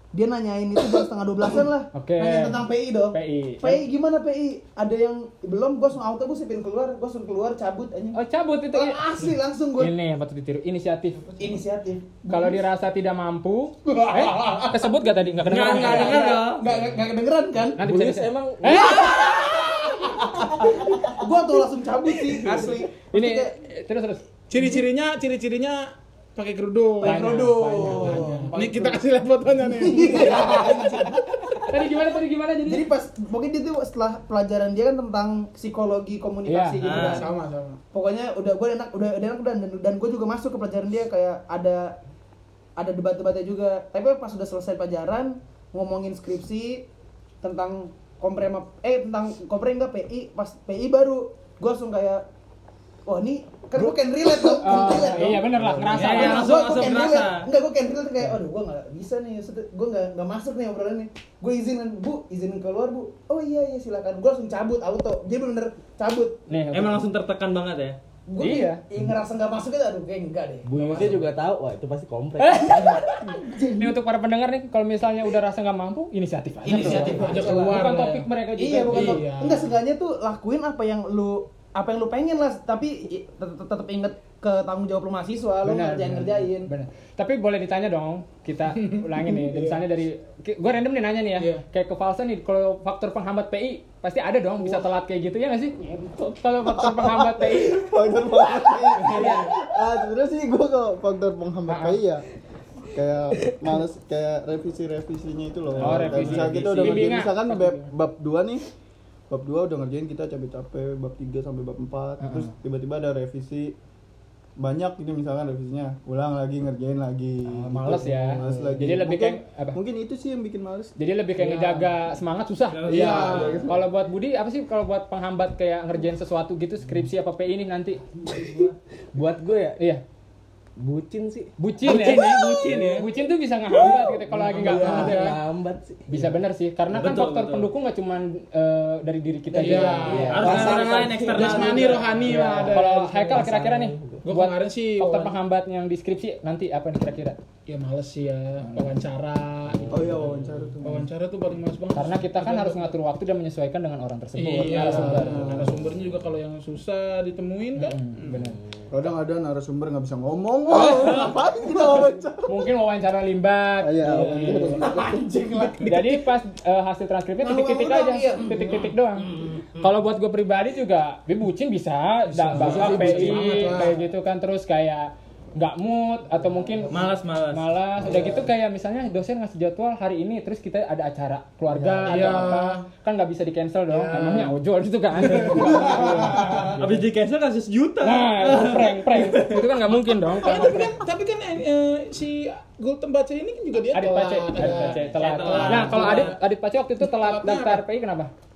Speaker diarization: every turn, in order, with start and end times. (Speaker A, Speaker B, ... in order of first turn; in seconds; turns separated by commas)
Speaker A: 0.1-8.2, Speaker B: 1.9-3.8, Speaker B: 8.1-9.1, Speaker A: 8.7-9.9, Speaker B: 9.8-11.4, Speaker A: 11.4-12.6, Speaker B: 12.3-16.4, Speaker A: 13.8-17.8, Speaker C: 15.4-16.6, Speaker B: 17.8-19.2, Speaker D: 17.8-19.1, Speaker A: 18.6-23.5, Speaker B: 23.1-24.2, Speaker E: 24.5-31.6, Speaker A: 27.0-29.0, Speaker B: 27.0-28.4, Speaker A: 29.8-31.6, Speaker B: 31.6-32.9, Speaker A: 32.6-37.3, Speaker B: 36.5-37.1, Speaker C: 36.8-37.2, Speaker E: 37.0-37.8, Speaker A: 37.9-42.0, Speaker A: 42.8-46.9, Speaker A: 47.4-52.2, Speaker A: 53.0-66.4, Speaker B: 54.4-56.6, Speaker F: 55.2-56.1, Speaker C: 55.9-57.5, Speaker B: 66.5-67.0, Speaker C: 66.7-68.0, Speaker A: 68.3-71.0, Speaker B: 68.4-68.8, Speaker D: 70.7-73.0, Speaker E: 70.8-71.2, Speaker B: 72.4-79.2, Speaker A: 72.6-73.9, Speaker A: 76.6-77.9, Speaker E: 76.7-78.3, Speaker A: 78.6-86.7, Speaker E: 78.8-79.8, Speaker B: 85.6-97.9, Speaker E: 88.7-89.8, Speaker E: 91.4-91.6, Speaker F: 96.7-102.2, Speaker B: 99.0-99.5, Speaker B: 101.7-102.0, Speaker F: 102.9-108.6, Speaker D: 105.8-107.2, Speaker B: 105.8-107.9, Speaker F: 109.3-113.7, Speaker B: 112.2-112.5, Speaker F: 114.6-121.0, Speaker B: 117.5-119.8, Speaker D: 118.3-118.9, Speaker B: 121.0-128.0, Speaker C: 122.7-123.7, Speaker E: 122.9-123.6, Speaker F: 123.1-123.8, Speaker D: 128.3-129.8, Speaker D: 130.8-133.0, Speaker B: 131.6-135.2, Speaker C: 131.8-133.1, Speaker D: 133.7-136.4, Speaker E: 134.6-135.4, Speaker B: 136.1-141.1, Speaker C: 136.9-137.7, Speaker E: 139.6-140.7, Speaker D: 139.6-144.2, Speaker C: 140.3-142.3, Speaker E: 141.2-143.1, Speaker B: 142.2-147.4, Speaker E: 144.2-145.4, Speaker E: 147.7-150.1, Speaker B: 148.6-148.9, Speaker D: 149.8-150.7, Speaker F: 149.9-151.1, Speaker E: 150.8-152.9, Speaker B: 151.9-155.7, Speaker E: 154.3-158.5, Speaker F: 154.9-155.7, Speaker D: 155.0-155.7, Speaker B: 157.8-158.6, Speaker F: 158.9-162.7, Speaker B: 160.7-161.4, Speaker A: 160.7-162.1, Speaker B: 162.5-164.8, Speaker F: 163.8-165.9, Speaker E: 164.3-164.7, Speaker A: 164.7-166.0, Speaker B: 165.8-187.1, Speaker A: 167.4-169.6, Speaker E: 172.3-174.0, Speaker D: 173.0-173.4, Speaker C: 176.9-177.7, Speaker F: 181.8-182.3, Speaker E: 182.0-182.9, Speaker E: 183.9-184.6, Speaker E: 185.2-186.7, Speaker A: 185.8-186.7, Speaker C: 186.7-189.7, Speaker B: 188.0-191.0, Speaker E: 190.1-196.4, Speaker B: 193.9-198.3, Speaker C: 194.8-196.3, Speaker E: 197.0-197.8